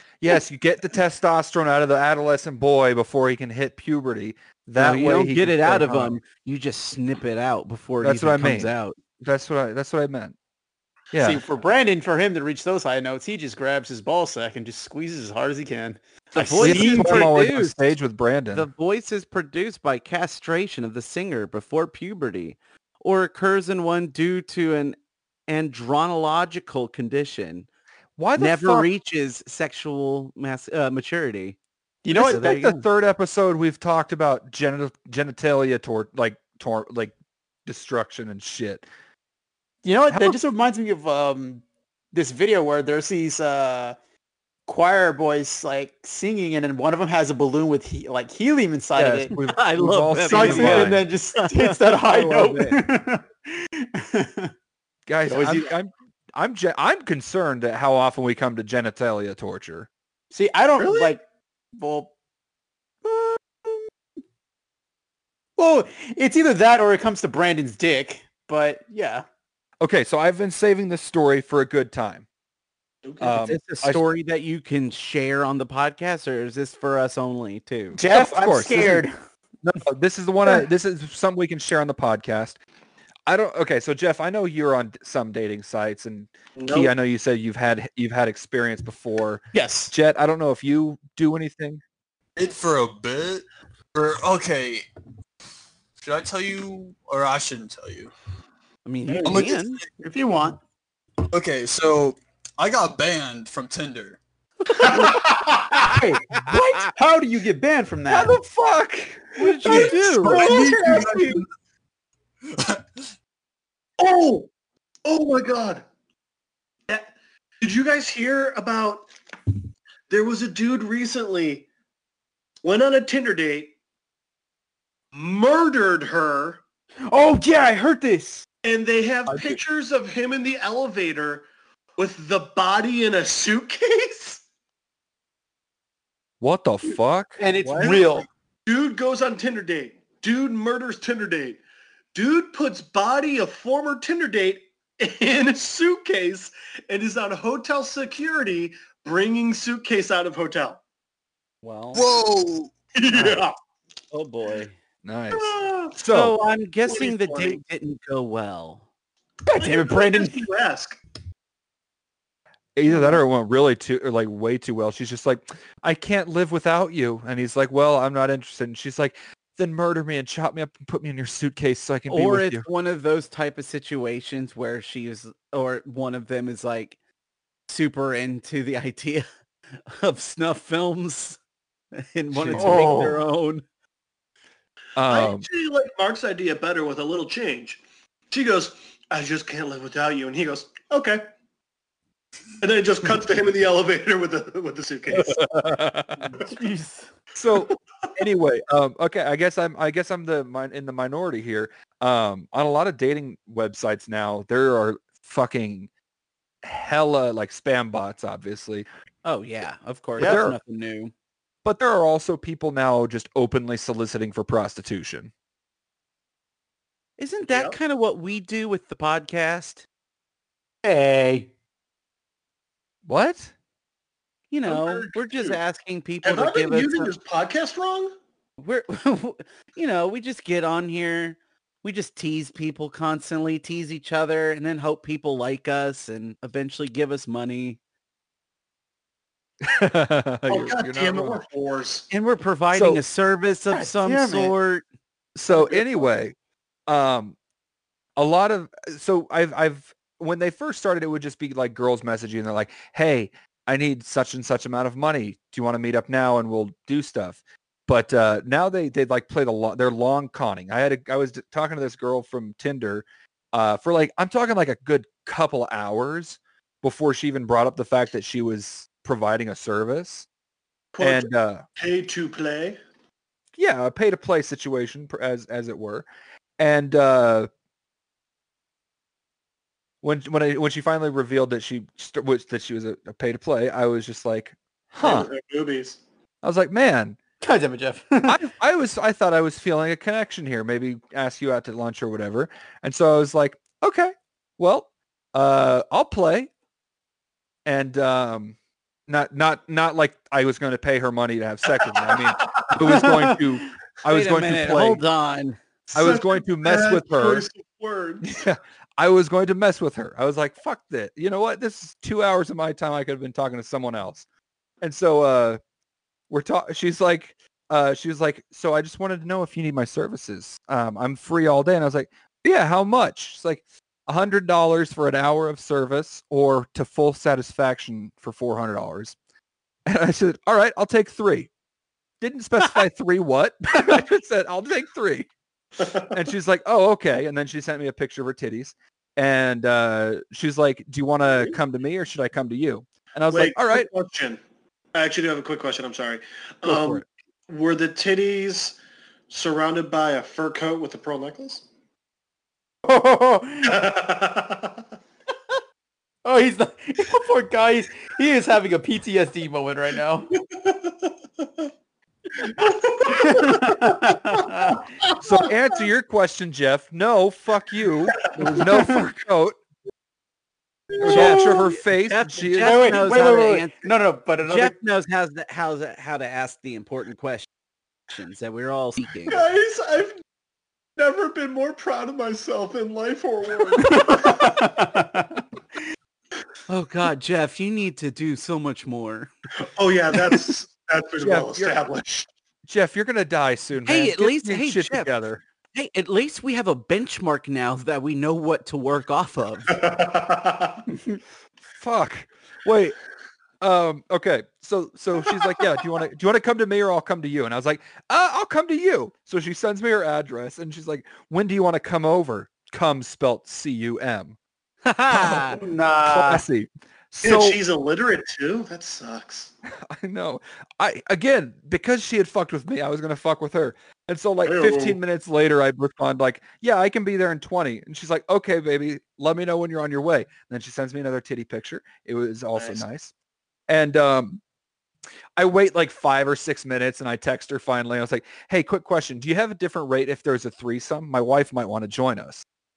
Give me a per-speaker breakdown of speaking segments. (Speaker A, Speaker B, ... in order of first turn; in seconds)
Speaker A: 0.2-6.2, 8.0-10.3, 11.1-11.4, 16.6-18.7, 28.2-28.9, 32.1-37.1, 37.6-38.9, 40.1-40.4, 49.0-51.0, 52.0-52.8, 55.1-59.9, 69.8-72.2, 73.2-74.0, 78.1-79.1, 79.6-82.6, 83.2-91.8, 108.1-109.9, 136.4-137.8, 153.1-153.4, 155.0-156.3, 162.8-172.7, 182.3-182.9, 184.9-185.5, 195.1-196.2, 197.3-205.9, 206.6-208.8, 210.2-210.6, 211.6-215.3, 223.1-223.5, 239.6-241.4, 242.7-243.0, 245.3-246.3, 246.9-247.3, 248.2-270.3, 271.0-271.6, 273.6-276.1, 276.6-277.5, 280.0-285.3, 286.4-287.2, 288.2-296.5, 297.6-298.6, 299.1-305.0, 305.9-307.4, 308.2-314.2, 314.8-315.6, 316.3-329.1, 329.9-331.5, 332.2-335.3, 335.8-343.9, 346.6-347.0, 365.2-369.6, 371.0-373.0, 391.2-391.8, 392.6-395.4, 401.8-402.9, 403.6-414.4, 416.1-417.6, 419.9-433.1, 433.7-434.4, 435.4-442.4
Speaker B: 4.8-9.0, 16.3-17.8, 18.5-25.0, 25.5-27.7, 28.4-31.6, 32.1-32.8, 49.5-51.8, 73.2-78.0, 98.8-99.8, 106.3-106.8, 109.3-110.4, 151.6-152.0, 154.1-154.7, 156.1-158.8, 172.1-176.9, 177.7-179.2, 179.8-181.4, 181.9-183.6, 209.2-211.1, 217.2-219.8, 224.5-227.1, 228.6-237.8, 242.1-244.8, 304.1-305.6, 371.1-373.9, 374.4-377.5, 378.1-379.4, 386.7-389.3, 393.9-395.1, 395.7-399.8, 414.9-415.6
Speaker C: 11.2-17.3, 32.0-32.7, 39.8-43.9, 44.7-49.3, 50.3-54.5, 55.3-55.7, 60.3-61.2, 61.7-62.1, 63.0-63.8, 65.6-69.2, 77.9-79.1, 89.5-89.9, 99.1-99.4, 100.0-100.6, 104.7-108.4, 109.6-111.4, 127.1-128.4, 137.4-138.3, 159.4-160.4, 182.5-183.2, 196.3-197.1, 210.2-210.4, 220.8-221.5, 243.7-244.5, 287.4-288.4, 302.9-303.4, 352.8-353.9, 356.2-360.3, 363.0-364.8, 368.4-369.0, 370.9-371.8, 372.6-374.7, 383.8-385.4, 415.3-416.4
Speaker D: 60.8-61.1, 73.0-73.3, 86.6-86.9, 104.8-105.8, 110.4-111.1, 114.0-114.5, 115.0-115.8, 116.9-119.1, 120.1-121.7, 122.6-123.7, 125.1-126.6, 128.6-131.4, 132.0-134.4, 137.7-138.1, 138.7-141.6, 142.1-150.8, 152.9-153.6, 155.3-155.9, 156.8-157.6, 159.5-161.0, 162.9-163.2, 185.1-191.2, 192.6-195.7, 217.4-217.8, 224.7-225.6, 226.2-228.1, 240.5-242.1, 270.9-272.8, 285.0-286.0, 302.0-302.7, 305.9-308.4, 343.3-344.4, 344.9-348.8, 349.3-351.6, 353.6-354.8, 360.4-361.6, 362.4-365.1, 379.3-380.1, 381.0-384.6, 389.7-392.3, 399.7-400.8, 417.2-419.5, 424.4-425.0, 432.6-432.8
Speaker E: 92.3-94.9, 96.0-98.1, 99.2-99.9, 101.3-104.2, 109.7-111.4, 112.5-113.0, 151.9-152.7